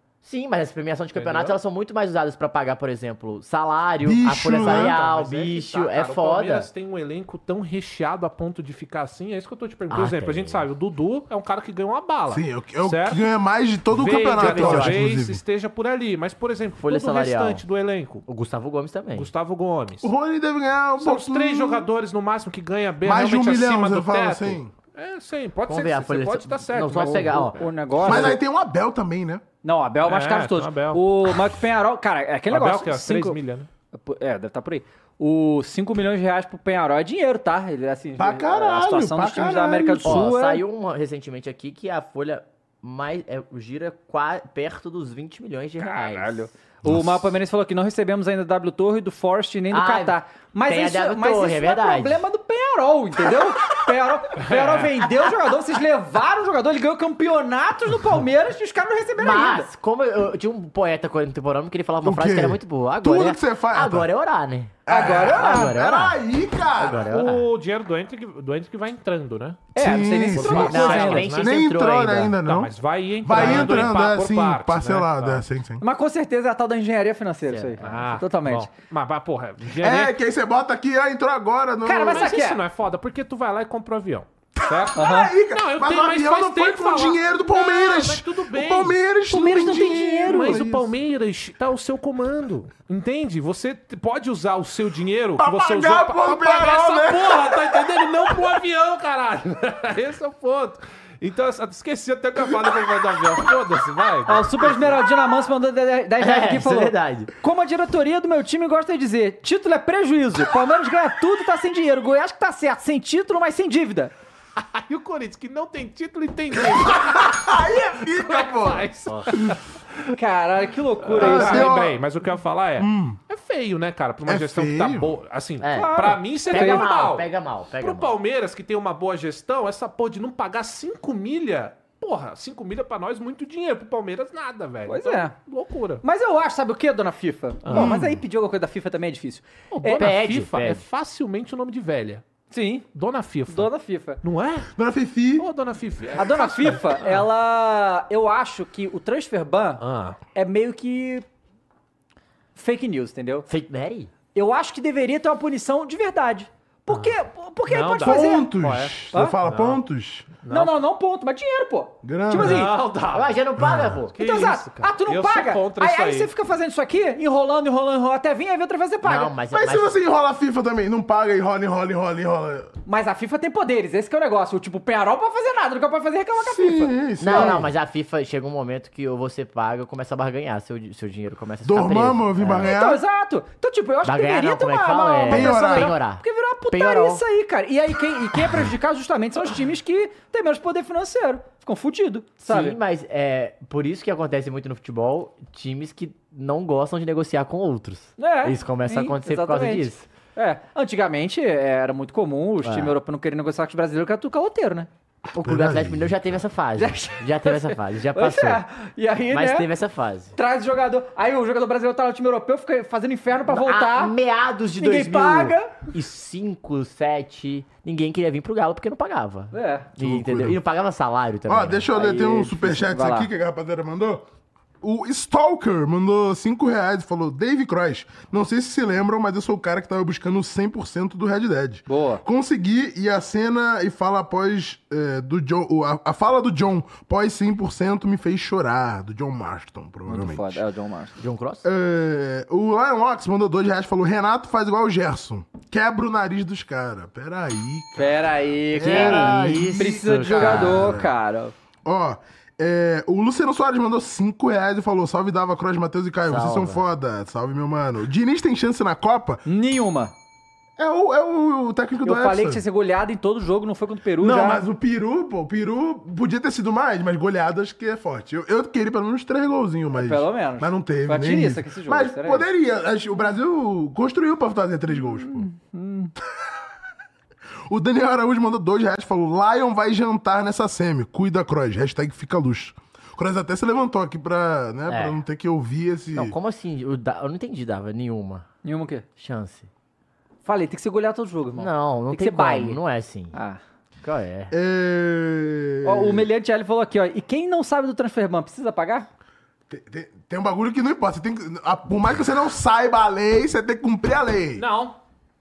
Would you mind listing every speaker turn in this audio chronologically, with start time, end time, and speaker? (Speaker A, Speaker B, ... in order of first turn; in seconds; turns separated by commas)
Speaker A: 0.2-6.7, Speaker B: 1.1-1.6, Speaker C: 4.0-5.0, Speaker B: 4.5-13.2, Speaker A: 9.9-10.6, Speaker C: 12.3-15.4, Speaker B: 13.9-18.2, Speaker A: 14.3-15.0, Speaker A: 16.8-17.6, Speaker A: 18.3-19.3, Speaker B: 19.1-20.1, Speaker C: 20.0-21.9, Speaker B: 21.0-27.6, Speaker C: 23.0-24.7, Speaker A: 25.7-28.2, Speaker D: 26.9-28.4, Speaker C: 28.0-29.4, Speaker D: 29.6-33.4, Speaker B: 30.0-31.3, Speaker B: 32.5-33.7, Speaker D: 33.9-40.6, Speaker C: 38.2-40.3, Speaker A: 40.0-46.4, Speaker D: 45.8-59.7, Speaker A: 49.7-52.2, Speaker B: 54.4-54.9, Speaker A: 59.2-66.2, Speaker C: 62.0-64.1, Speaker C: 64.8-67.1, Speaker D: 64.9-65.7, Speaker A: 66.8-67.5, Speaker B: 67.0-69.7, Speaker D: 69.7-71.2, Speaker C: 69.7-75.8, Speaker B: 70.3-71.6, Speaker A: 70.5-72.3, Speaker B: 72.4-75.4, Speaker D: 73.3-73.8, Speaker D: 75.8-78.7, Speaker A: 77.5-78.1, Speaker B: 77.8-80.1, Speaker C: 79.7-82.3, Speaker D: 81.8-82.6, Speaker B: 82.1-89.0, Speaker C: 84.6-90.9, Speaker D: 85.0-85.3, Speaker D: 89.3-90.7, Speaker B: 89.5-104.7, Speaker C: 95.4-98.3, Speaker D: 104.3-114.1, Speaker A: 106.2-107.3, Speaker B: 114.6-120.1, Speaker C: 116.6-118.9, Speaker D: 120.1-121.7, Speaker B: 121.0-136.0, Speaker C: 121.1-122.0, Speaker C: 122.8-123.2, Speaker C: 124.2-125.1, Speaker A: 125.6-128.1, Speaker D: 125.7-126.9, Speaker D: 134.9-135.3, Speaker D: 136.0-140.1, Speaker B: 137.6-138.0, Speaker C: 137.7-138.2, Speaker B: 139.7-142.2, Speaker A: 139.9-140.8, Speaker D: 142.5-142.8, Speaker B: 142.9-144.7, Speaker D: 143.5-144.2, Speaker C: 144.8-145.5, Speaker B: 145.4-147.2, Speaker D: 146.2-149.8, Speaker B: 149.8-150.2, Speaker D: 150.3-151.2, Speaker D: 152.5-153.5, Speaker A: 153.5-154.1, Speaker D: 154.3-158.5, Speaker B: 156.9-157.1, Speaker B: 157.7-159.8, Speaker C: 158.0-160.3, Speaker B: 160.4-160.7, Speaker D: 160.5-162.7, Speaker C: 162.0-162.7, Speaker B: 162.3-166.3, Speaker A: 163.1-164.1, Speaker C: 163.6-163.9, Speaker D: 164.2-169.3, Speaker A: 169.0-169.9, Speaker C: 169.5-172.7, Speaker D: 172.8-177.6, Speaker C: 176.4-177.7, Speaker A: 177.2-182.7, Speaker C: 181.6-183.0, Speaker D: 182.6-192.8, Speaker A: 184.0-187.2, Speaker C: 185.2-185.9, Speaker A: 192.4-200.1, Speaker D: 198.2-204.9, Speaker A: 202.6-202.9, Speaker A: 205.3-208.6, Speaker C: 205.3-206.4, Speaker D: 206.8-209.7, Speaker A: 209.3-210.3, Speaker D: 210.3-214.1, Speaker A: 213.5-222.8, Speaker D: 214.8-215.8, Speaker D: 219.5-219.9, Speaker C: 220.0-220.6, Speaker C: 221.4-224.2, Speaker D: 222.0-223.3, Speaker C: 224.8-240.6, Speaker D: 231.9-232.2, Speaker D: 240.1-241.2, Speaker A: 241.2-241.6, Speaker C: 241.6-251.1, Speaker D: 247.9-251.5, Speaker A: 248.7-251.1, Speaker C: 251.8-259.4, Speaker A: 256.2-256.8, Speaker D: 259.4-260.1, Speaker C: 260.8-262.6, Speaker D: 262.0-264.6, Speaker C: 264.2-275.5, Speaker D: 269.9-272.4, Speaker D: 274.9-276.1, Speaker C: 277.7-286.4, Speaker A: 284.9-285.2, Speaker A: 286.1-288.4, Speaker D: 288.6-289.0, Speaker A: 289.2-289.7, Speaker D: 290.4-292.8, Speaker A: 291.6-293.3, Speaker D: 293.3-293.6, Speaker A: 294.0-294.5, Speaker C: 294.5-296.3, Speaker D: 295.8-299.1, Speaker C: 299.7-304.6, Speaker B: 304.6-305.0